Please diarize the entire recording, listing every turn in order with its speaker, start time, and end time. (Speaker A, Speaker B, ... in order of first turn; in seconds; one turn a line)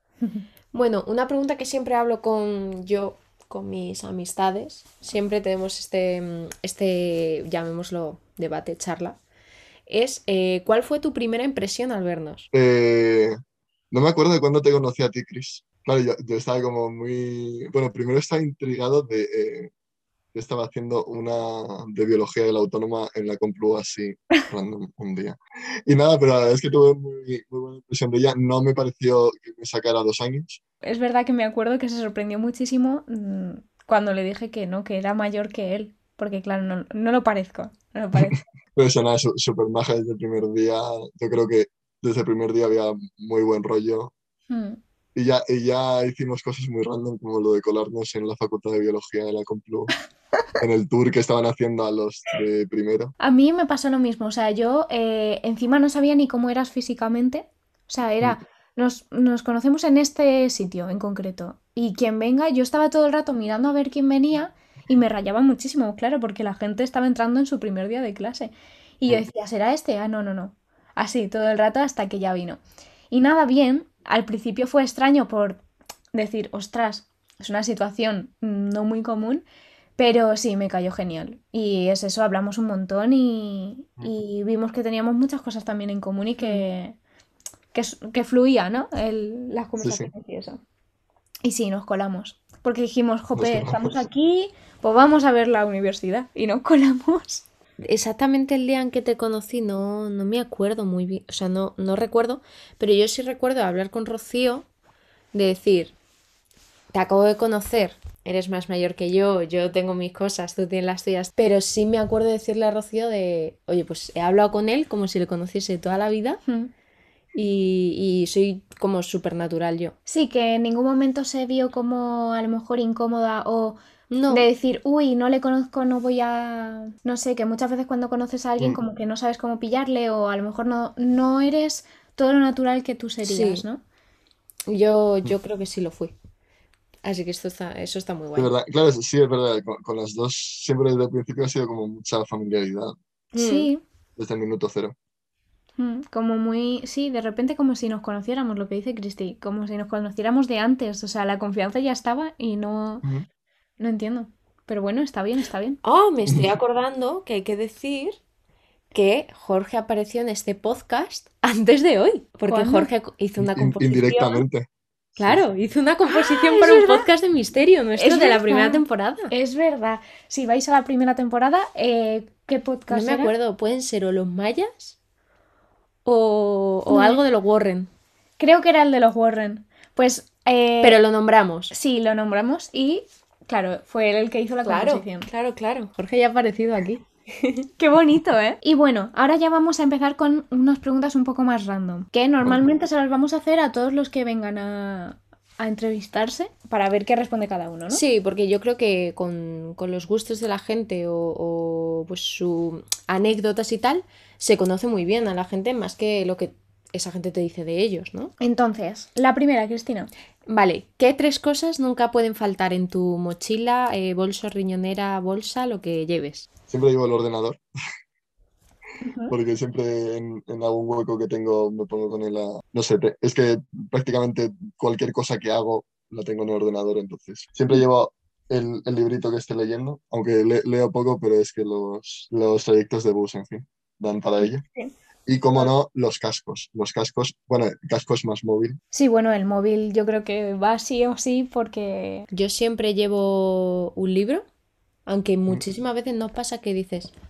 Speaker A: 0.7-9.2
Speaker A: 9.9-12.5
Speaker B: 12.5-13.4
Speaker B: 13.9-19.7
Speaker B: 20.3-30.6
Speaker C: 30.8-38.4
Speaker B: 38.3-44.1
Speaker C: 44.5-44.8
Speaker B: 45.1-49.9
Speaker B: 50.6-53.1
Speaker C: 53.2-72.6
Speaker C: 73.1-75.6
Speaker C: 76.1-79.4
Speaker C: 80.0-87.0
Speaker C: 87.7-90.6
Speaker B: 89.8-90.1
Speaker C: 91.4-97.5
Speaker B: 93.4-94.0
Speaker A: 97.8-104.7
Speaker A: 105.3-106.0
Speaker A: 106.9-116.4
Speaker A: 117.3-120.0
Speaker C: 120.1-123.8
Speaker A: 124.1-124.5
Speaker C: 124.3-133.8
Speaker A: 133.2-133.7
Speaker A: 134.7-136.1
Speaker A: 137.0-138.5
Speaker B: 138.3-142.9
Speaker A: 143.3-143.7
Speaker C: 143.4-143.8
Speaker B: 144.2-144.9
Speaker C: 145.8-153.1
Speaker C: 153.8-155.8
Speaker A: 155.8-158.2
Speaker A: 158.9-164.4
Speaker C: 162.5-162.9
Speaker B: 163.4-165.4
Speaker A: 165.2-169.3
Speaker C: 166.2-167.1
Speaker C: 168.0-173.3
Speaker A: 172.9-175.0
Speaker A: 176.1-177.9
Speaker C: 176.9-177.2
Speaker C: 178.4-181.0
Speaker A: 180.8-181.7
Speaker C: 181.7-185.3
Speaker A: 184.7-187.7
Speaker C: 187.8-198.0
Speaker A: 197.9-208.3
Speaker C: 208.4-210.1
Speaker A: 210.5-216.5
Speaker B: 216.7-217.6
Speaker C: 219.0-219.3
Speaker B: 219.3-234.6
Speaker C: 234.4-234.9
Speaker B: 235.3-238.8
Speaker C: 238.9-242.3
Speaker A: 242.3-244.5
Speaker A: 245.1-247.1